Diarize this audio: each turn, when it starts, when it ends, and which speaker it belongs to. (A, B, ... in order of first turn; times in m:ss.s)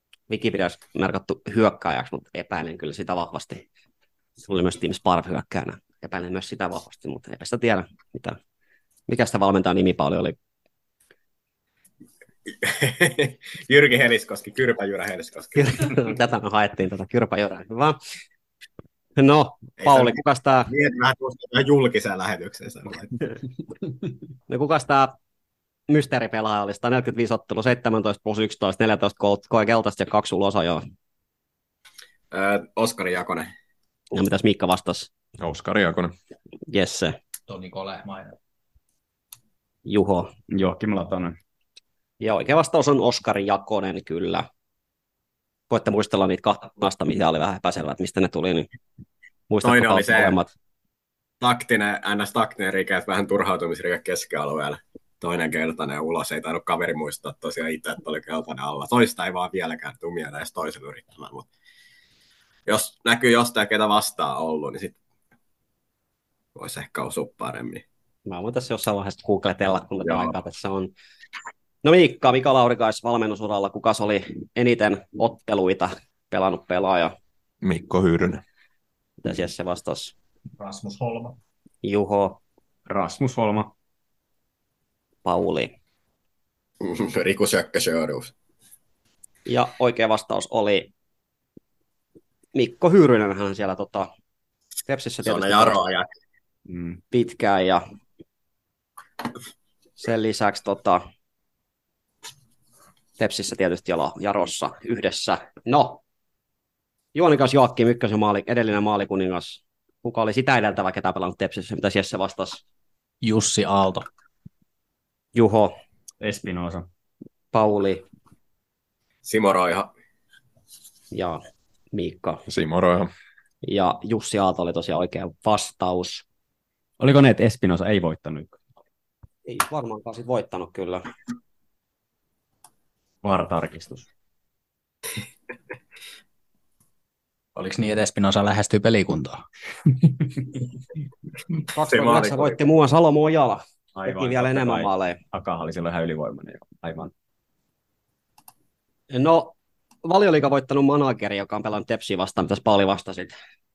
0:00.3-0:03.6 A
0:04.4-0:08.4 A
0:09.1-0:10.4 A
0:12.5-0:15.7 B
0:15.5-0:18.0 A
0:19.2-0:20.7 A
0:19.8-0:20.2 B
0:20.7-0:23.2 B
0:24.5-0:25.1 A
0:25.9-0:30.8 A
0:32.3-0:33.5 B
0:34.1-0:35.1 A
0:35.4-0:36.1 C
0:36.7-0:37.2 A
0:37.5-0:38.3 D
0:39.8-0:40.3 A
0:40.5-0:41.4 E
0:42.2-0:44.4 A
0:45.7-0:48.7 A
0:49.5-0:50.5 A
0:49.6-0:50.4 B
0:51.4-1:01.4 B
1:02.7-1:05.0 B
1:06.6-1:07.8 B
1:08.3-1:10.9 A
1:10.0-1:10.3 B
1:11.8-1:17.1 A
1:17.6-1:18.4 C
1:19.2-1:20.1 A
1:20.6-1:21.4 D
1:21.8-1:22.4 A
1:22.9-1:23.7 E
1:25.2-1:25.7 A
1:26.8-1:28.3 B
1:29.4-1:30.9 A
1:32.5-1:34.1 A
1:34.9-1:35.8 A
1:35.2-1:36.1 B
1:36.7-1:37.0 E
1:37.1-1:37.8 A
1:40.0-1:41.0 A
1:43.2-1:46.0 A
1:47.1-1:52.6 A
1:53.2-1:54.0 D
1:55.3-1:55.7 A
1:56.2-1:56.9 E
1:57.5-1:58.0 A
1:59.2-1:59.9 B
2:01.1-2:01.4 A
2:01.9-2:02.4 A
2:02.5-2:03.1 C
2:03.6-2:06.2 A
2:07.0-2:08.6 E
2:09.4-2:11.0 A
2:13.2-2:14.1 E
2:17.6-2:19.4 D
2:21.7-2:25.2 A
2:21.8-2:22.6 B
2:23.9-2:27.1 E
2:29.1-2:33.3 A